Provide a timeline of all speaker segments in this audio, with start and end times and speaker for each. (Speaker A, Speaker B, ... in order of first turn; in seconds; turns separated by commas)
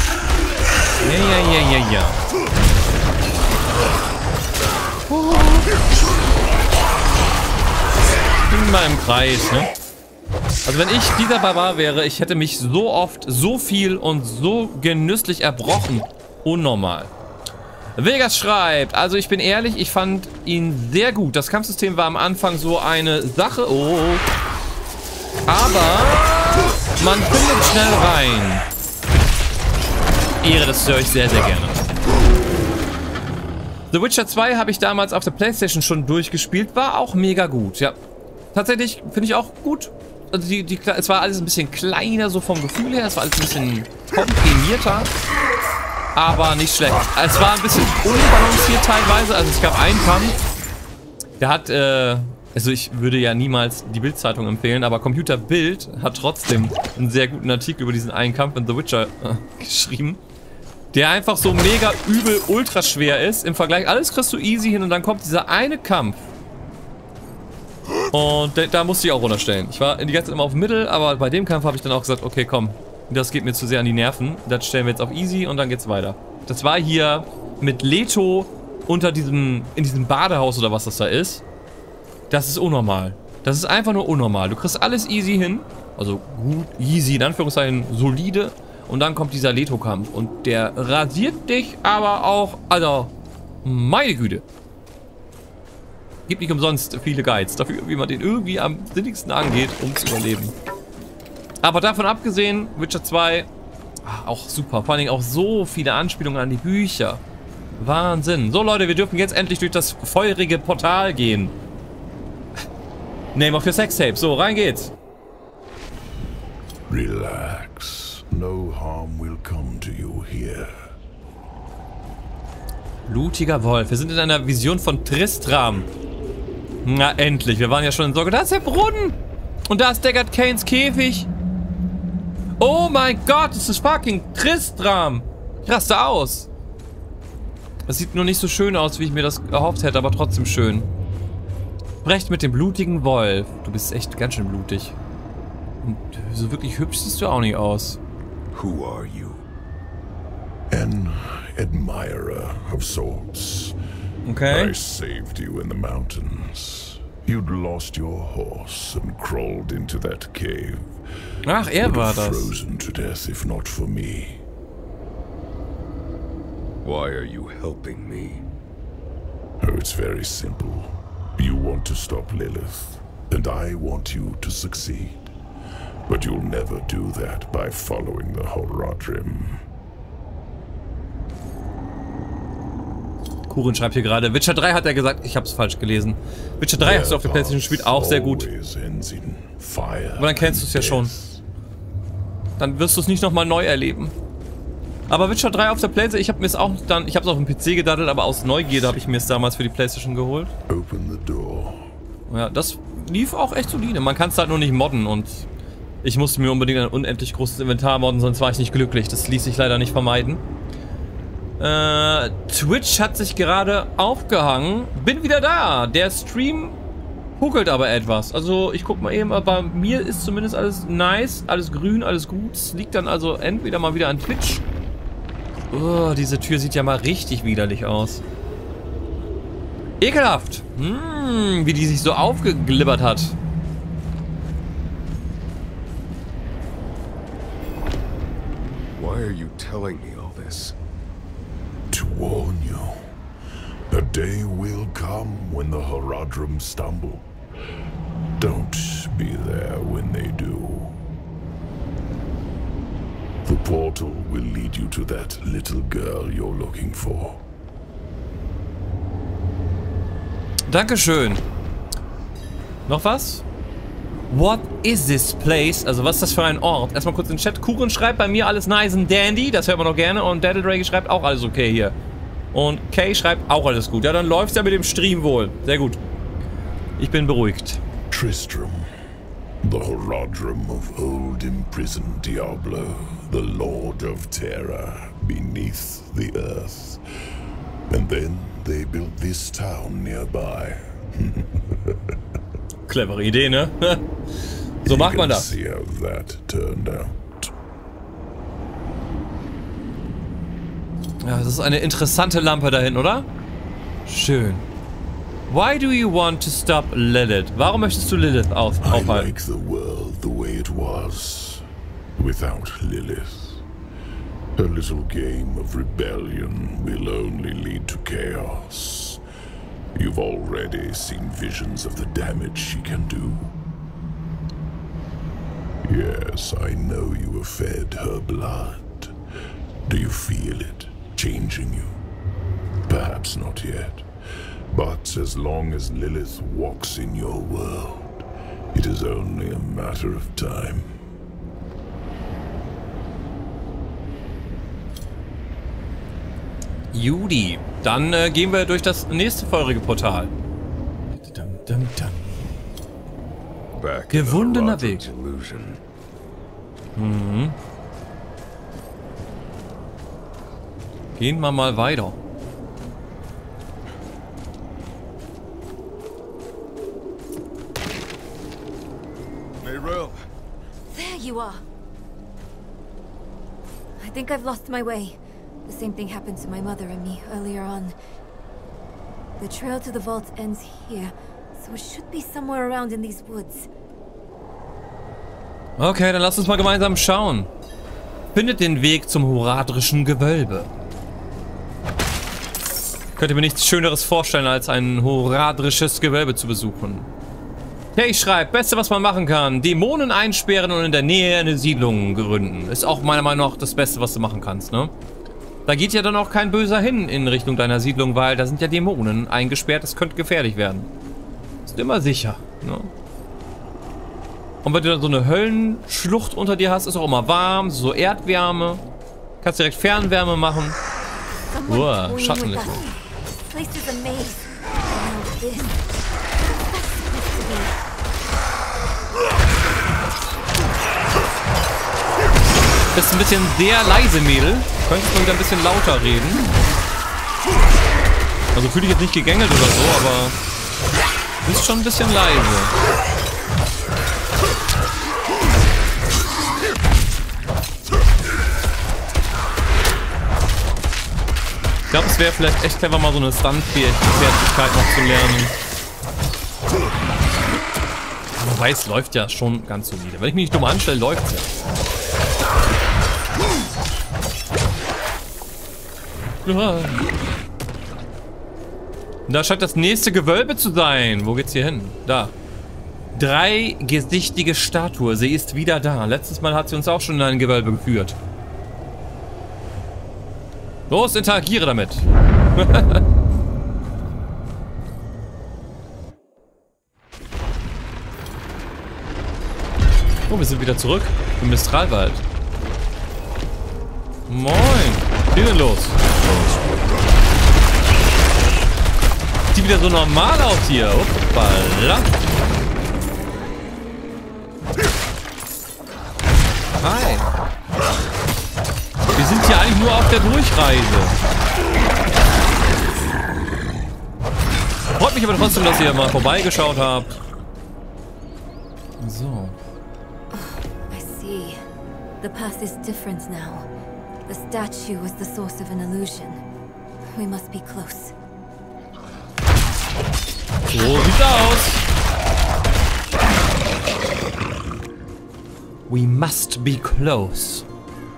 Speaker A: 1.0-2.2, Speaker A: 5.1-5.7, Speaker A: 8.4-9.7, Speaker A: 10.6-17.1, Speaker A: 17.9-24.2, Speaker A: 25.5-28.6, Speaker A: 30.4-31.8, Speaker A: 33.9-38.0, Speaker A: 38.5-45.1, Speaker A: 46.1-50.4, Speaker A: 51.4-60.2, Speaker A: 60.9-66.3, Speaker A: 68.1-81.4, Speaker A: 82.3-93.1, Speaker A: 93.6-94.4, Speaker A: 96.3-100.5, Speaker A: 101.6-103.5, Speaker A: 104.0-107.2, Speaker A: 107.8-111.5, Speaker A: 113.3-114.9, Speaker B: 116.9-120.7, Speaker A: 123.1-125.9, Speaker A: 126.8-131.3, Speaker A: 132.6-136.5, Speaker A: 137.9-140.9, Speaker A: 142.0-144.9, Speaker A: 145.8-148.0, Speaker C: 148.5-149.4, Speaker B: 150.7-153.8, Speaker A: 154.2-154.7, Speaker B: 154.4-164.4, Speaker A: 161.4-162.5, Speaker C: 166.8-168.4, Speaker B: 169.6-175.3, Speaker B: 176.1-179.6, Speaker A: 183.5-188.5, Speaker B: 186.8-191.4, Speaker A: 190.2-191.1, Speaker A: 192.6-194.1, Speaker A: 195.1-200.5, Speaker B: 200.7-201.9, Speaker A: 202.3-205.5, Speaker A: 206.0-210.4, Speaker A: 211.6-216.8, Speaker A: 217.4-224.6, Speaker A: 225.7-228.2, Speaker A: 230.0-233.4, Speaker C: 238.9-240.8, Speaker B: 241.9-243.1, Speaker B: 243.9-247.3, Speaker B: 248.4-251.0, Speaker B: 253.4-257.4, Speaker A: 260.7-261.4, Speaker A: 262.9-263.4, Speaker A: 264.3-271.9, Speaker A: 272.5-276.0, Speaker A: 277.0-277.8, Speaker B: 278.1-278.9, Speaker B: 279.6-287.0, Speaker B: 287.9-292.2, Speaker A: 292.9-294.1, Speaker A: 294.8-295.5, Speaker B: 294.9-297.5, Speaker A: 301.2-303.3, Speaker A: 304.1-304.6, Speaker A: 305.5-309.3, Speaker B: 308.8-311.6, Speaker B: 312.2-313.6, Speaker B: 314.6-319.2, Speaker B: 319.9-323.5, Speaker B: 325.8-329.1, Speaker B: 329.9-332.0, Speaker B: 332.9-334.1, Speaker B: 334.7-340.9, Speaker A: 346.9-350.3, Speaker A: 351.2-352.4, Speaker C: 353.7-355.8, Speaker A: 354.1-355.1, Speaker A: 356.9-357.6, Speaker A: 361.2-362.2, Speaker C: 369.6-370.2, Speaker D: 370.9-371.6, Speaker D: 374.0-377.9, Speaker D: 379.4-383.7, Speaker A: 385.8-387.5, Speaker A: 388.3-390.7, Speaker A: 393.1-397.1, Speaker A: 397.9-404.9, Speaker A: 405.6-410.9, Speaker A: 411.6-412.9, Speaker A: 414.6-418.8, Speaker A: 419.4-420.8, Speaker D: 421.5-425.8, Speaker A: 421.7-422.7, Speaker D: 426.7-427.7, Speaker A: 432.9-436.5, Speaker A: 438.5-440.4, Speaker A: 441.4-442.7, Speaker A: 451.9-455.6, Speaker A: 458.4-461.6, Speaker A: 466.4-467.1, Speaker A: 469.3-472.3, Speaker A: 473.1-478.2, Speaker A: 480.9-483.0, Speaker A: 490.3-492.2, Speaker A: 494.3-496.0, Speaker C: 496.2-497.1, Speaker A: 499.5-502.1, Speaker A: 506.8-507.3, Speaker A: 509.1-511.2, Speaker A: 514.9-517.1, Speaker A: 519.0-519.6, Speaker D: 520.3-521.6, Speaker D: 522.2-523.7, Speaker D: 524.2-526.4, Speaker D: 527.1-528.1, Speaker A: 530.7-531.9, Speaker A: 535.9-537.6